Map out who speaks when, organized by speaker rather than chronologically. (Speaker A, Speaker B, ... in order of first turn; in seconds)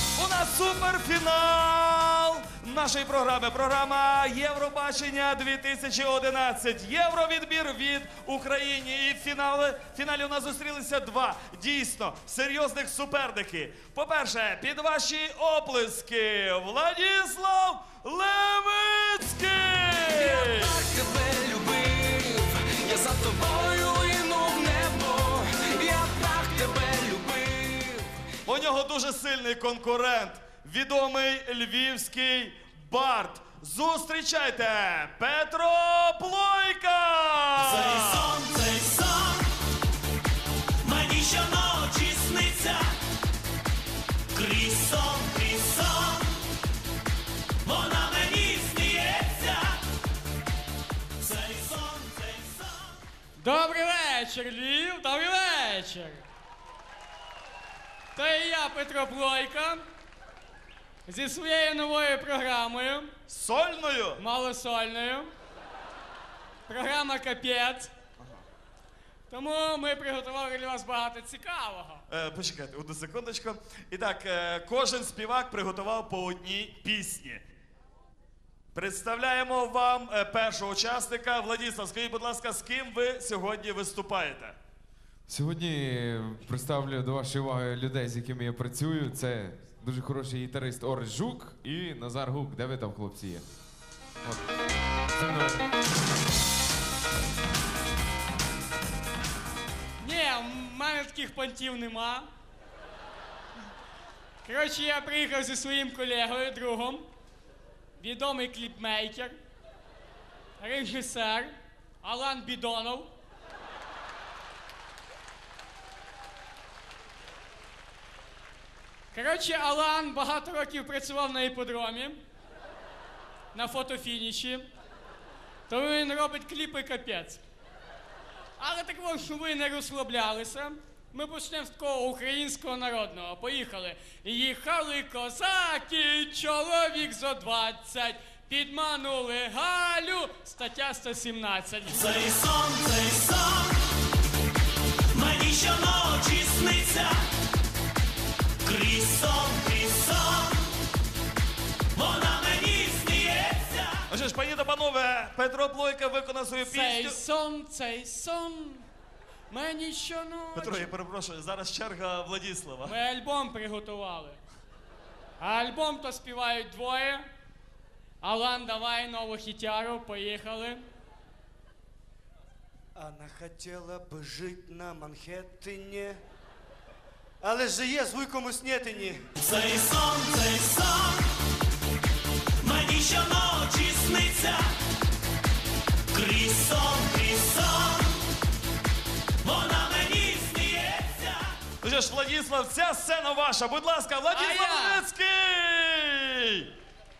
Speaker A: 0.1-20.8, 28.4-38.3, 63.3-64.2, 72.1-77.5, 78.7-84.6, 154.1-157.2, 160.5-162.9, 191.8-196.7
Speaker B: 20.1-28.4, 173.3-174.2, 175.1-175.7
Speaker C: 37.6-39.4, 40.8-42.9, 44.3-46.4, 47.6-49.8, 51.2-52.9, 142.0-143.8, 145.1-147.2, 148.6-150.7, 151.9-154.0, 179.4-181.2, 182.6-184.7, 186.1-188.2, 189.4-191.5
Speaker D: 53.4-56.2, 58.1-59.9, 61.0-63.1, 64.2-65.3, 66.7-67.9, 69.3-72.0, 100.0-102.3, 104.4-107.1, 108.0-109.4, 110.6-113.1, 119.1-122.2, 123.5-124.7, 125.7-127.4, 128.6-142.1, 156.6-158.8, 159.5-160.9, 162.8-164.4, 165.4-167.3, 168.2-170.8, 194.3-195.0
Speaker E: 85.3-93.5, 95.2-95.6
Speaker F: 172.9-176.2, 177.4-179.2